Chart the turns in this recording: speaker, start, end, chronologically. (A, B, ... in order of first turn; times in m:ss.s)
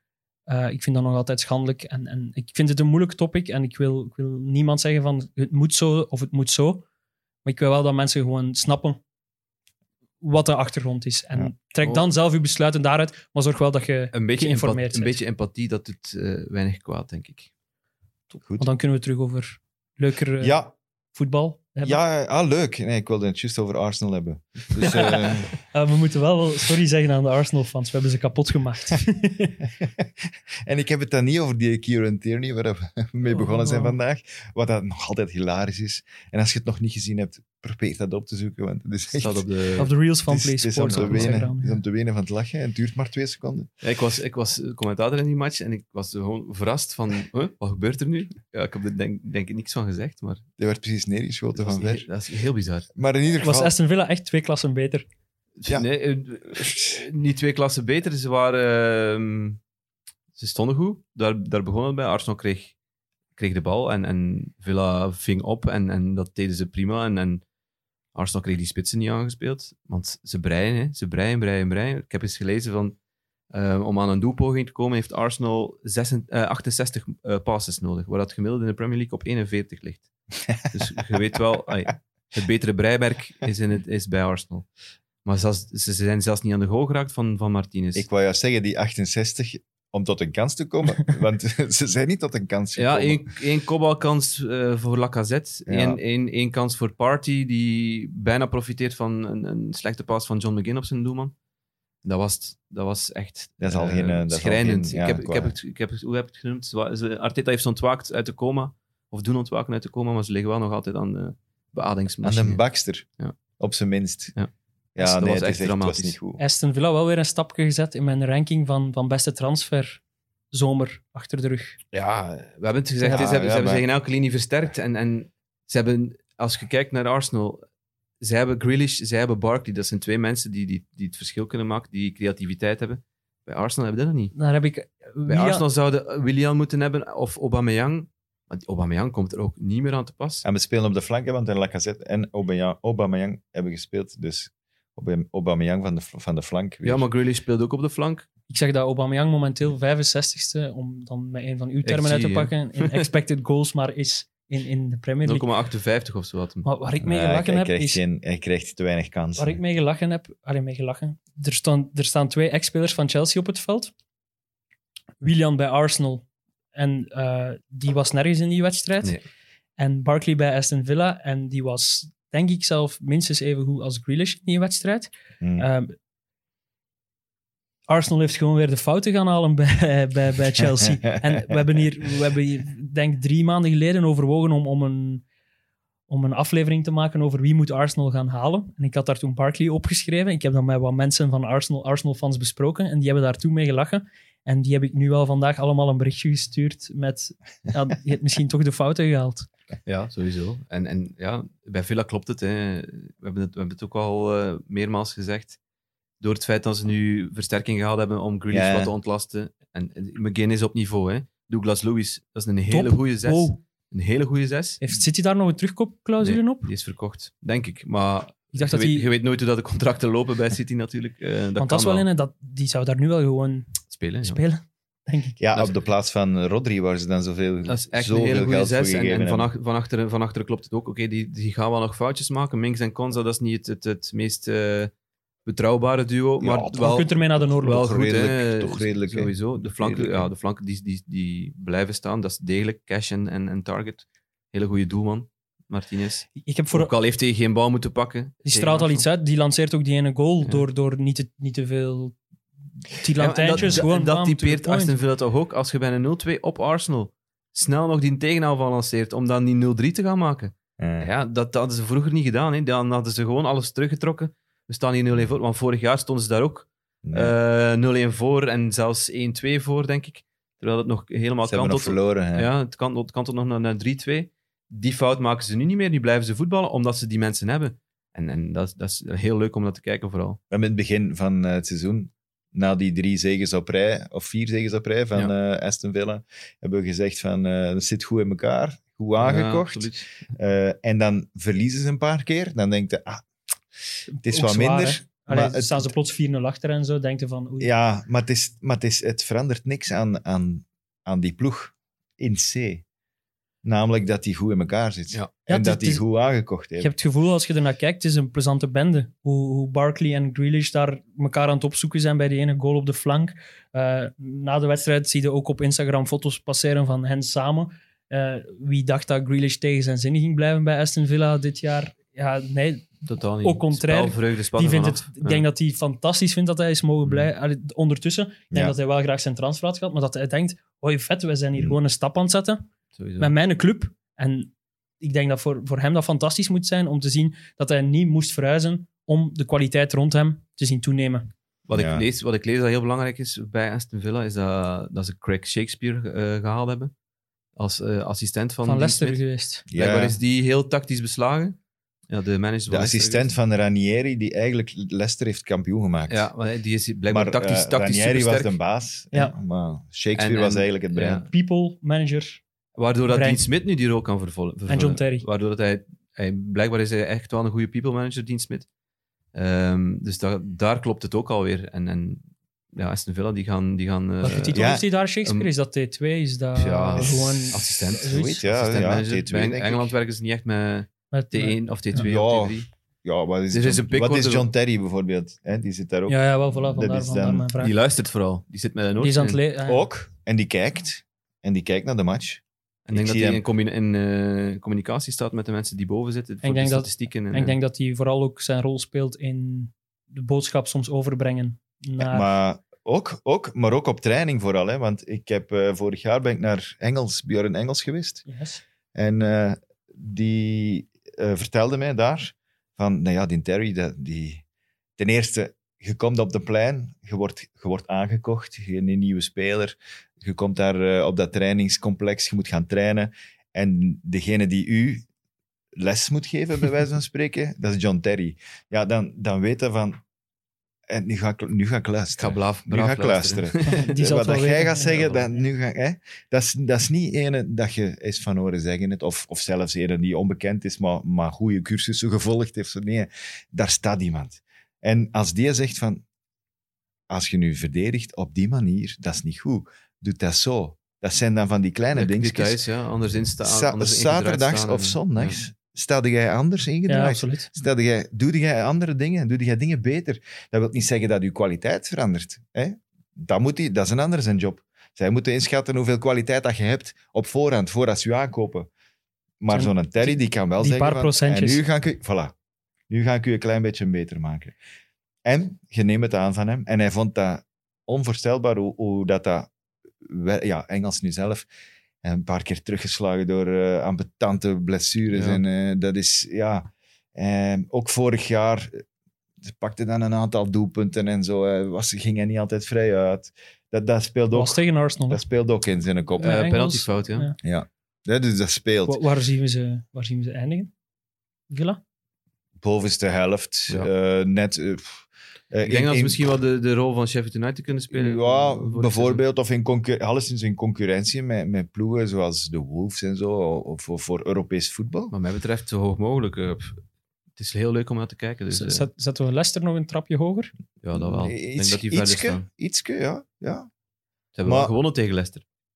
0:00.5-0:06.8 A
0:07.4-0:09.0 A
0:10.2-0:15.2 A
0:11.8-0:12.1 B
0:14.1-0:17.5 B
0:18.4-0:18.7 C
0:18.6-0:20.6 A
0:20.4-0:20.7 C
0:21.1-0:22.0 A
0:21.8-0:25.5 C
0:24.9-0:29.6 A
0:29.8-0:39.4 C
0:33.3-0:34.0 A
0:39.1-0:39.9 B
0:39.8-0:41.8 A
0:40.3-0:43.7 C
0:40.9-0:41.3 B
0:43.8-0:50.4 B
0:50.6-0:52.0 C
0:51.6-0:52.9 B
0:53.0-0:53.7 C
0:53.4-0:55.0 A
0:55.6-0:59.6 B
1:00.4-1:02.7 B
1:03.4-1:07.4 B
1:08.1-1:13.0 B
1:13.5-1:20.1 B
1:20.7-1:24.6 B
1:25.2-1:28.0 B
1:27.9-1:33.2 C
1:32.8-1:41.3 B
1:35.7-1:36.0 C
1:42.0-1:52.6 B
1:43.6-1:45.5 C
1:52.2-1:53.0 C
1:53.6-1:54.3 C
1:54.4-1:56.2 B
1:55.0-1:56.4 C
1:56.4-2:00.0 A
2:00.5-2:01.8 A
2:01.9-2:07.6 B
2:03.0-2:03.3 A
2:03.1-2:03.8 C
2:08.2-2:14.3 B
2:14.3-2:15.6 A
2:15.3-2:20.4 B
2:20.4-2:27.0 C
2:26.8-2:28.3 B
2:28.5-2:35.5 A
2:31.8-2:33.0 B
2:35.2-2:36.7 B
2:36.6-2:38.0 A
2:37.0-2:39.6 C
2:39.4-2:43.9 A
2:45.2-2:49.2 A
2:49.8-2:55.9 A
2:55.4-2:55.6 C
2:57.9-3:05.2 A
3:06.1-3:19.5 A
3:19.8-3:25.6 B
3:26.2-3:34.8 B
3:28.5-3:28.9 C
3:32.7-3:33.6 A
3:34.8-3:36.7 A
3:36.2-3:42.0 B
3:38.5-3:39.1 A
3:41.6-3:45.4 A
3:43.9-3:44.4 B
3:45.4-3:49.5 C
3:47.7-3:54.9 B
3:55.4-4:09.0 B
3:56.4-3:56.9 C
3:56.7-3:57.9 A
3:57.4-4:00.3 C
4:06.4-4:06.9 A
4:08.4-4:12.2 A
4:13.0-4:15.0 A
4:13.2-4:40.4 B
4:20.8-4:21.1 C
4:27.0-4:27.4 C
4:31.4-4:32.5 C
4:40.5-4:53.2 C
4:49.2-4:50.1 B
4:54.1-4:57.7 A
4:54.2-4:55.9 C
4:57.6-5:02.8 C
5:03.6-5:06.9 C
5:05.5-5:06.0 A
5:06.8-5:32.7 A
5:23.0-5:25.4 B
5:33.0-5:33.3 B
5:33.2-5:41.3 A
5:41.6-5:46.9 B
5:41.7-5:42.0 C
5:47.6-5:49.2 B
5:48.6-5:49.6 A
5:49.7-5:50.2 C
5:49.7-5:51.6 B
5:52.1-5:53.3 B
5:52.7-5:56.3 C
5:56.1-5:58.6 B
5:57.1-6:01.2 C
6:00.2-6:01.3 B
6:01.2-6:02.4 A
6:02.8-6:08.7 B
6:03.1-6:03.4 A
6:04.7-6:05.2 A
6:09.3-6:14.7 B
6:14.2-6:18.4 A
6:14.5-6:14.8 C
6:15.2-6:15.5 B
6:16.6-6:22.7 B
6:17.0-6:19.9 C
6:21.1-6:22.0 A
6:22.0-6:27.5 C
6:23.5-6:24.5 B
6:26.1-6:27.7 A
6:27.6-6:29.4 B
6:29.0-6:29.8 A
6:29.6-6:33.4 C
6:32.9-6:37.6 B
6:36.4-6:42.3 A
6:42.0-6:48.2 C
6:48.3-6:48.6 A
6:48.9-6:54.4 C
6:55.0-7:05.0 C
7:05.8-7:10.0 C
7:10.9-7:26.0 C
7:12.2-7:13.8 B
7:13.6-7:15.1 A
7:27.1-7:32.6 C
7:31.9-7:35.4 B
7:33.4-7:48.7 C
7:36.9-7:37.5 A
7:49.4-7:52.3 C
7:49.5-7:51.6 A
7:52.9-7:54.5 C
7:55.2-7:59.5 C
8:00.0-8:01.4 C
8:02.0-8:08.8 C
8:05.1-8:05.4 B
8:09.4-8:16.4 C
8:14.3-8:15.2 A
8:16.2-8:17.4 A
8:16.2-8:17.3 B
8:17.4-8:19.0 C
8:18.8-8:20.7 A
8:21.5-8:21.8 A
8:22.6-8:26.2 C
8:25.6-8:29.2 B
8:27.9-8:35.1 C
8:35.1-8:36.8 B
8:37.4-8:38.8 B
8:38.5-8:40.5 A
8:40.8-8:42.4 B
8:40.9-8:43.7 C
8:44.4-8:45.4 B
8:44.4-8:44.7 C